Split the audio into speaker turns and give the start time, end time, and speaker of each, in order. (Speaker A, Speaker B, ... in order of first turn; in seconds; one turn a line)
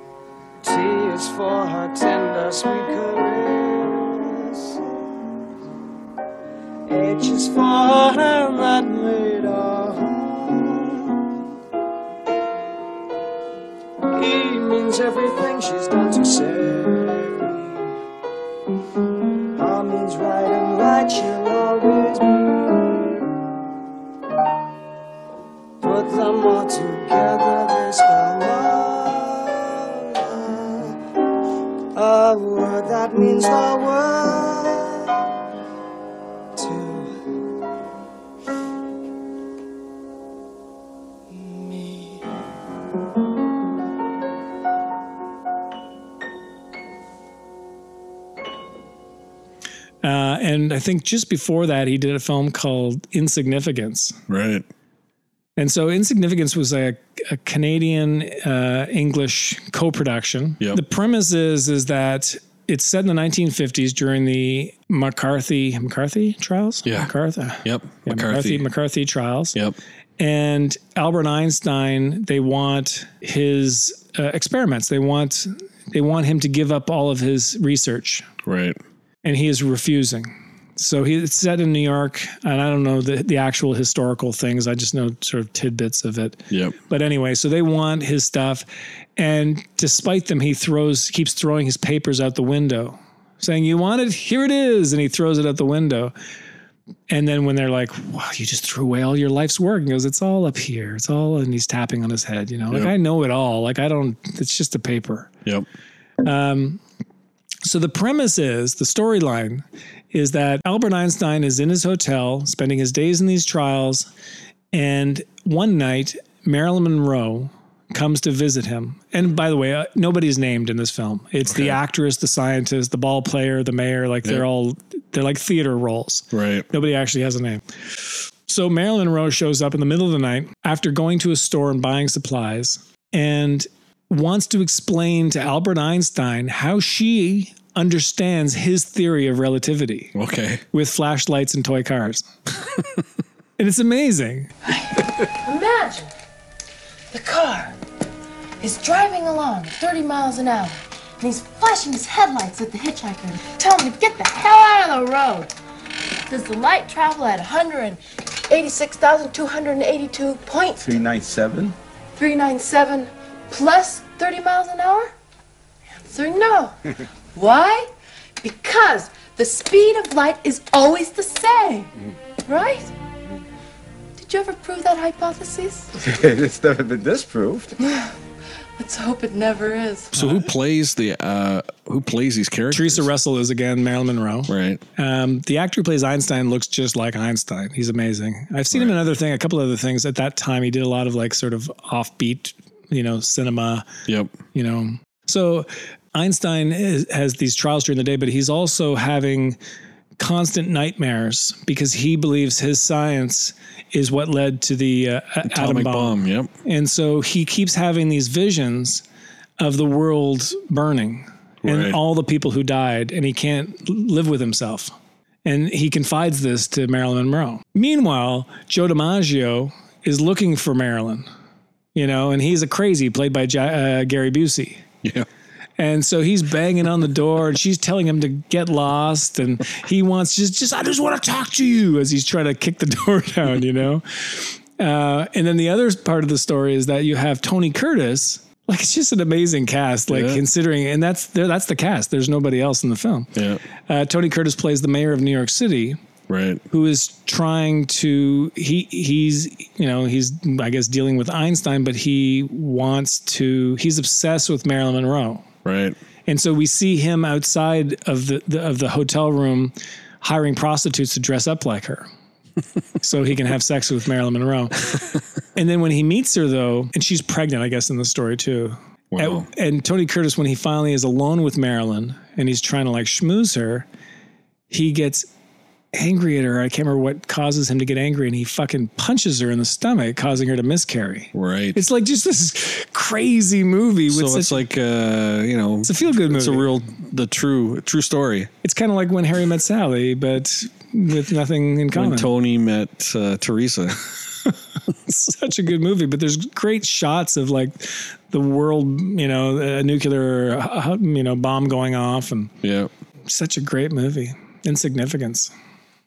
Speaker A: 0.6-4.8
Speaker A: 6.9-11.2
Speaker A: 14.1-17.8
Speaker A: 19.6-23.2
Speaker A: 25.8-31.0
Speaker A: 31.9-35.1
Speaker A: 36.5-37.2
Speaker A: 41.3-42.2
Speaker B: 50.0-54.2
Speaker C: 54.3-54.6
Speaker B: 55.6-69.5
Speaker C: 66.8-67.1
Speaker C: 67.6-68.7
Speaker B: 70.2-78.3
Speaker C: 78.4-78.8
Speaker B: 79.2-88.7
Speaker C: 86.5-86.8
Speaker B: 89.2-96.1
Speaker B: 97.1-105.3
Speaker B: 106.2-106.8
Speaker B: 107.6-114.1
Speaker B: 114.7-127.6
Speaker C: 121.5-121.8
Speaker C: 126.3-126.7
Speaker B: 128.5-140.1
Speaker C: 140.1-140.6
Speaker B: 140.7-142.3
Speaker B: 143.6-144.5
Speaker D: 144.7-146.1
Speaker D: 147.1-147.8
Speaker D: 148.6-155.5
Speaker D: 156.3-161.0
Speaker E: 160.8-161.7
Speaker D: 162.1-165.1
Speaker D: 166.0-166.8
Speaker D: 167.3-171.9
Speaker D: 172.5-172.9
Speaker D: 174.2-175.9
Speaker E: 176.0-177.7
Speaker D: 177.8-178.1
Speaker D: 178.8-180.2
Speaker C: 180.1-183.1
Speaker B: 182.7-193.8
Speaker C: 184.5-184.8
Speaker C: 188.7-188.9
Speaker C: 194.1-194.4
Speaker B: 194.5-199.6
Speaker B: 200.2-209.0
Speaker C: 205.4-206.5
Speaker B: 209.6-214.9
Speaker C: 211.6-212.0
Speaker B: 215.4-221.3
Speaker B: 221.9-224.8
Speaker B: 225.8-243.3
Speaker C: 240.1-240.4
Speaker C: 243.3-243.6
Speaker B: 243.9-246.0
Speaker C: 246.3-246.6
Speaker B: 246.7-255.4
Speaker C: 255.6-256.0
Speaker B: 256.3-262.1
Speaker B: 263.0-264.9
Speaker B: 265.6-273.9
Speaker C: 269.1-269.5
Speaker B: 274.7-275.3
Speaker B: 275.9-284.6
Speaker C: 281.3-281.8
Speaker C: 284.1-288.5
Speaker B: 285.8-286.7
Speaker B: 288.6-292.3
Speaker C: 291.9-294.0
Speaker B: 295.1-302.5
Speaker C: 302.6-302.9
Speaker B: 303.3-305.5